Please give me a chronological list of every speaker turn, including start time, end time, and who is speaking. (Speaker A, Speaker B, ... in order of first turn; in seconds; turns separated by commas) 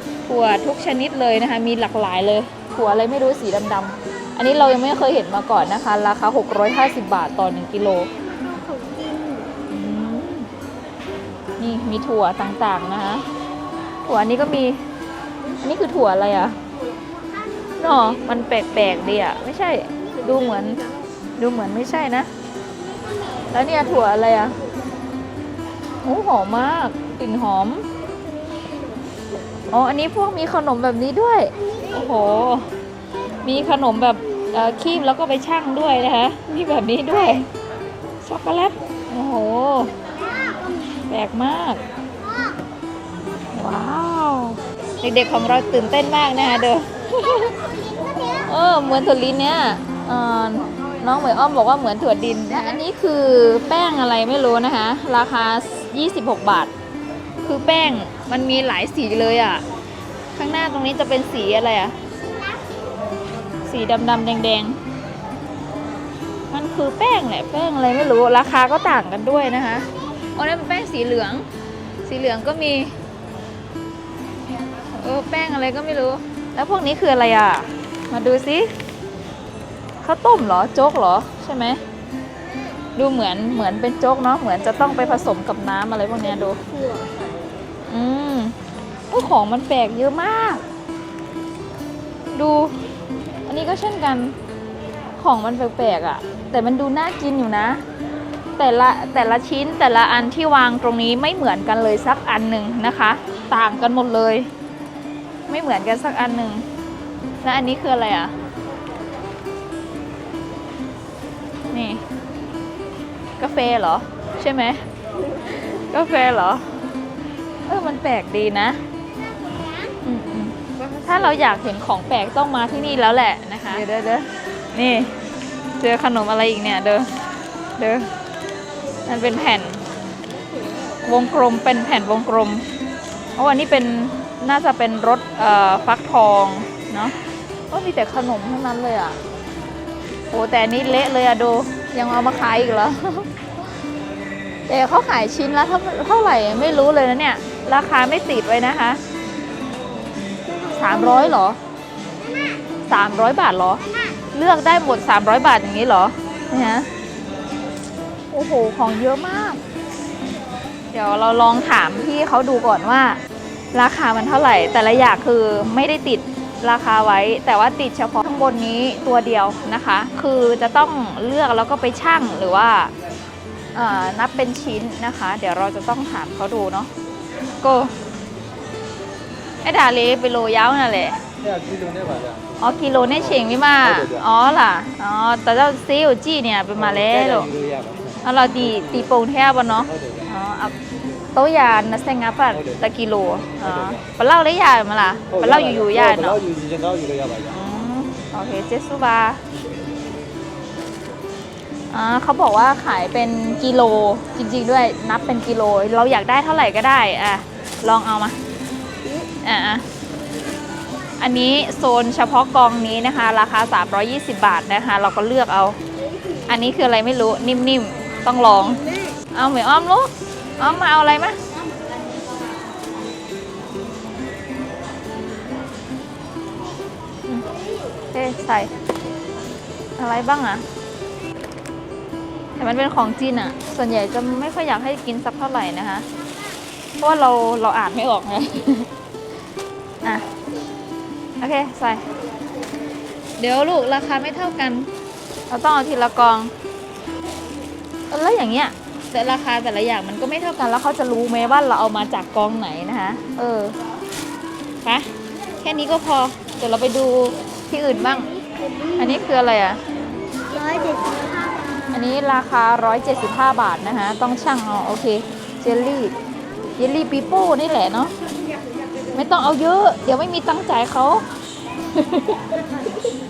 Speaker A: 0.3-8.1, Speaker B: 8.2-9.5, Speaker A: 9.7-10.5, Speaker A: 11.6-13.2, Speaker A: 14.1-14.8, Speaker A: 15.6-16.6, Speaker B: 17.6-18.1, Speaker A: 17.8-20.8, Speaker B: 20.1-20.9, Speaker A: 21.4-22.3, Speaker B: 22.9-23.6, Speaker A: 23.5-24.6, Speaker A: 26.0-27.9, Speaker B: 28.2-29.3, Speaker A: 29.7-32.7, Speaker B: 31.6-32.5, Speaker A: 33.4-37.5, Speaker A: 38.2-39.9, Speaker B: 40.0-41.0, Speaker A: 41.1-41.8, Speaker B: 42.2-42.6, Speaker A: 43.5-47.5, Speaker B: 47.2-48.5, Speaker A: 48.5-56.7, Speaker A: 57.4-59.6, Speaker A: 60.4-62.0, Speaker B: 62.2-62.7, Speaker A: 63.7-64.8, Speaker A: 66.5-71.5, Speaker A: 72.0-73.0, Speaker A: 75.0-78.7, Speaker A: 80.0-81.8, Speaker A: 83.0-86.6, Speaker A: 87.9-88.5, Speaker A: 89.1-90.6, Speaker A: 92.3-92.8, Speaker A: 93.5-94.4, Speaker A: 95.2-97.8, Speaker A: 98.6-104.5, Speaker A: 105.5-106.7, Speaker A: 107.4-108.3, Speaker A: 111.7-112.0, Speaker A: 113.4-114.8, Speaker A: 115.7-116.7, Speaker A: 117.7-118.8, Speaker B: 119.3-120.0, Speaker A: 120.0-125.1, Speaker A: 125.8-127.1, Speaker A: 127.8-128.1, Speaker A: 129.1-129.8, Speaker A: 131.0-132.7, Speaker A: 133.4-137.2, Speaker A: 137.7-139.2, Speaker A: 140.3-143.3, Speaker A: 144.7-149.0, Speaker B: 150.5-151.4, Speaker A: 150.7-151.6, Speaker B: 152.2-152.7, Speaker A: 152.9-156.9, Speaker B: 153.8-154.2, Speaker A: 158.3-159.6, Speaker A: 160.9-163.2, Speaker A: 163.7-172.9, Speaker A: 173.8-176.9, Speaker A: 177.6-177.9, Speaker A: 179.6-181.2, Speaker C: 181.4-184.2, Speaker A: 182.6-187.5, Speaker C: 186.8-189.1, Speaker A: 188.2-190.8, Speaker C: 189.9-190.3, Speaker A: 191.3-196.4, Speaker C: 192.5-192.8, Speaker C: 193.6-194.0, Speaker C: 195.3-197.6, Speaker A: 197.5-199.4, Speaker A: 201.9-208.4, Speaker A: 209.4-209.8, Speaker A: 211.2-215.8, Speaker B: 216.1-216.4, Speaker A: 216.5-218.8, Speaker A: 219.3-221.4, Speaker A: 228.1-228.7, Speaker A: 230.0-230.7, Speaker A: 232.6-236.1, Speaker B: 236.3-236.5, Speaker A: 237.0-238.9, Speaker A: 241.4-242.1, Speaker A: 243.4-244.9, Speaker A: 245.5-246.5, Speaker A: 248.1-253.8, Speaker A: 254.8-255.1, Speaker A: 255.6-258.3, Speaker B: 257.9-259.4, Speaker A: 259.0-259.8, Speaker B: 260.3-262.0, Speaker A: 261.9-266.1, Speaker A: 266.8-268.1, Speaker A: 269.1-271.2, Speaker A: 271.9-272.6